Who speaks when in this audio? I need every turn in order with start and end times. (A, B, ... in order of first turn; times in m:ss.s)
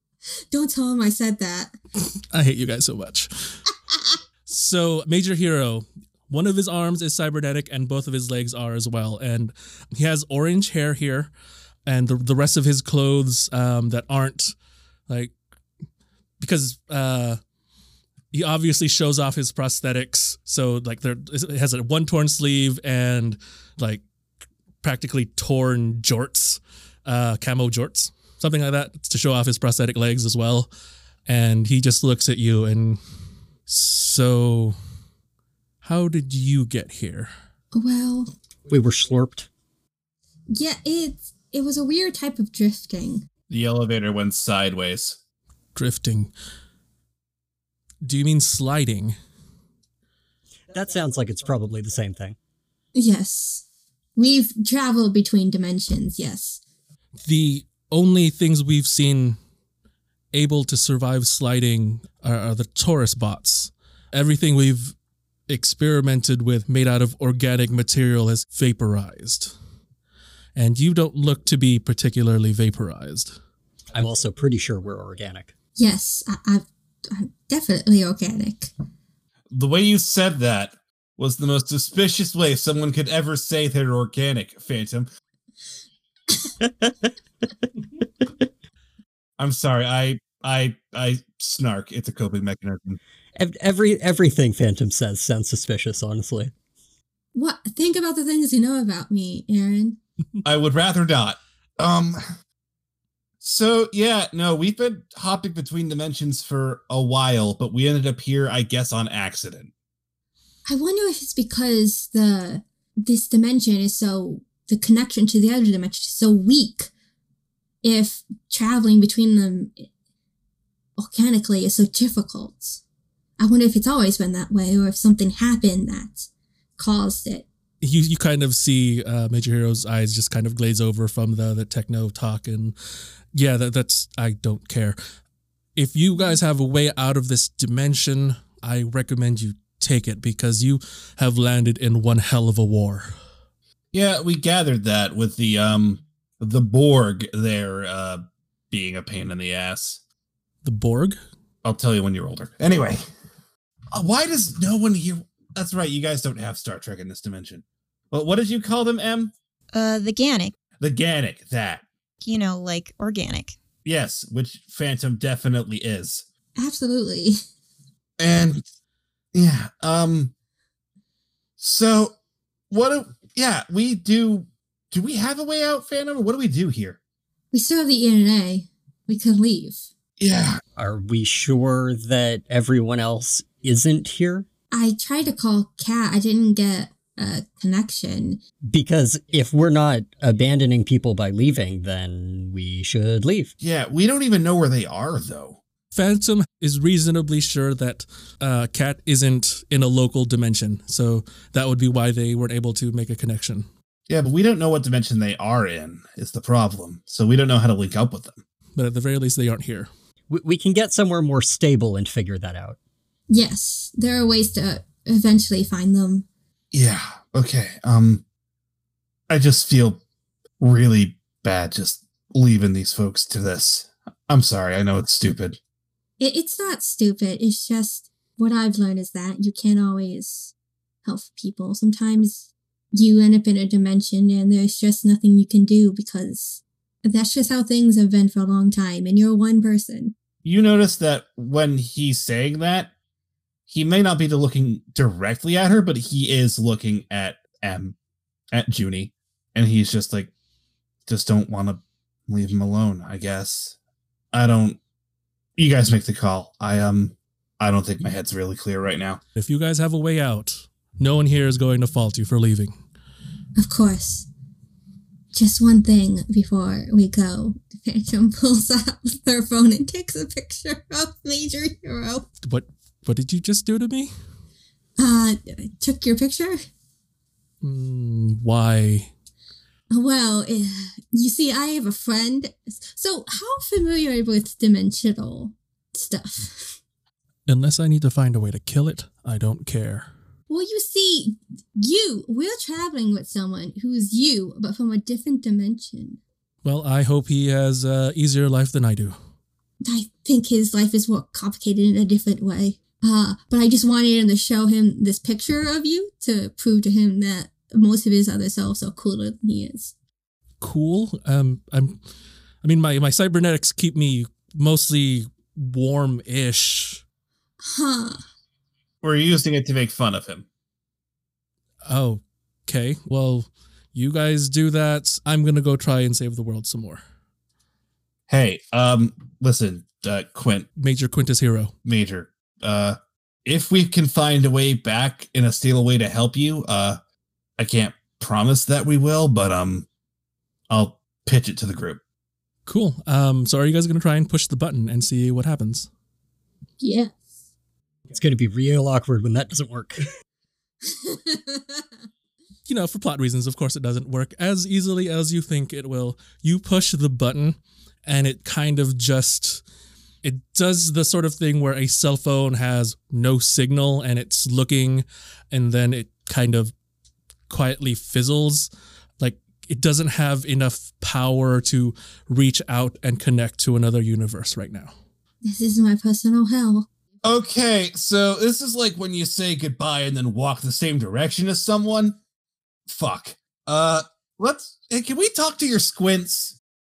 0:00.5-0:01.7 A
0:02.3-0:03.6 B
0:04.4-0:11.3 B
0:11.9-0:14.6 B
0:15.1-0:15.3 B
0:16.4-0:17.4 B
0:18.3-0:24.0 B
0:24.8-0:30.7 B
0:31.3-0:33.0 B
0:33.7-0:34.8 B
0:35.8-0:37.3 B
0:37.7-0:38.3 A
0:38.7-0:39.5 C
0:40.5-0:43.2 A
0:43.5-0:45.2 D
0:45.7-0:46.3 B
0:48.0-0:49.2 B
0:50.7-0:52.4 C
0:52.9-0:53.6 A
0:54.2-0:56.6 A
0:57.2-0:59.4 B
1:00.3-1:05.0 B
1:05.5-1:09.5 B
1:10.5-1:13.4 B
1:13.9-1:15.5 C
1:15.8-1:18.7 A
1:19.5-1:25.1 D
1:29.4-1:33.0 D
1:33.4-1:36.5 C
1:37.3-1:40.0 A
1:40.4-1:42.2 D
1:43.4-1:49.7 D
1:50.7-1:56.9 A
1:57.8-1:59.9 A
2:01.0-2:02.8 A
2:03.4-2:07.5 A
2:07.8-2:12.8 B
2:13.3-2:15.0 B
2:15.8-2:23.1 B
2:23.9-2:30.0 D
2:30.6-2:31.2 B
2:31.6-2:33.0 D
2:33.9-2:39.3 D
2:39.7-2:40.5 E
2:40.8-2:41.8 D
2:42.2-2:43.6 E
2:43.8-2:46.2 D
2:46.6-2:47.4 A
2:48.2-2:48.6 D
2:49.3-2:50.3 D
2:51.6-2:52.1 D
2:52.7-2:57.0 D
2:57.5-2:59.9 A
3:00.2-3:00.6 D
3:00.8-3:04.4 C
3:04.7-3:08.4 A
3:08.7-3:13.5 C
3:13.6-3:15.6 D
3:15.9-3:23.7 B
3:24.1-3:28.4 D
3:28.7-3:29.9 B
3:30.3-3:32.8 C
3:33.3-3:36.2 A
3:36.7-3:38.2 D
3:39.3-3:40.0 D
3:40.6-3:45.6 D
3:46.2-3:50.5 A
3:51.0-4:00.1 A
4:00.4-4:02.9 D
4:03.7-4:07.9 D
4:08.5-4:10.3 D
4:11.1-4:13.8 D
4:14.3-4:14.8 D
4:15.6-4:19.2 D
4:19.3-4:22.8 B
4:23.6-4:24.3 A
4:25.3-4:32.2 A
4:32.4-4:34.1 B
4:35.0-4:36.6 A
4:37.6-4:39.1 B
4:39.9-4:46.8 A
4:47.5-4:50.1 B
4:50.5-4:56.2 A
4:56.6-4:59.2 B
4:59.8-5:09.9 A
5:10.6-5:12.0 B
5:12.6-5:17.0 B
5:17.6-5:18.2 A
5:19.0-5:20.4 D
5:21.8-5:27.0 B
5:28.3-5:30.7 D
5:30.8-5:31.7 B
5:31.8-5:37.0 D
5:37.6-5:39.8 D
5:40.7-5:42.0 D
5:42.6-5:45.9 B
5:46.8-5:47.2 A
5:48.1-5:50.0 C
5:50.9-5:51.8 A
5:52.7-5:59.6 B
6:00.2-6:06.7 B
6:07.5-6:14.9 B
6:15.5-6:16.9 A
6:17.2-6:22.2 D
6:22.9-6:26.6 D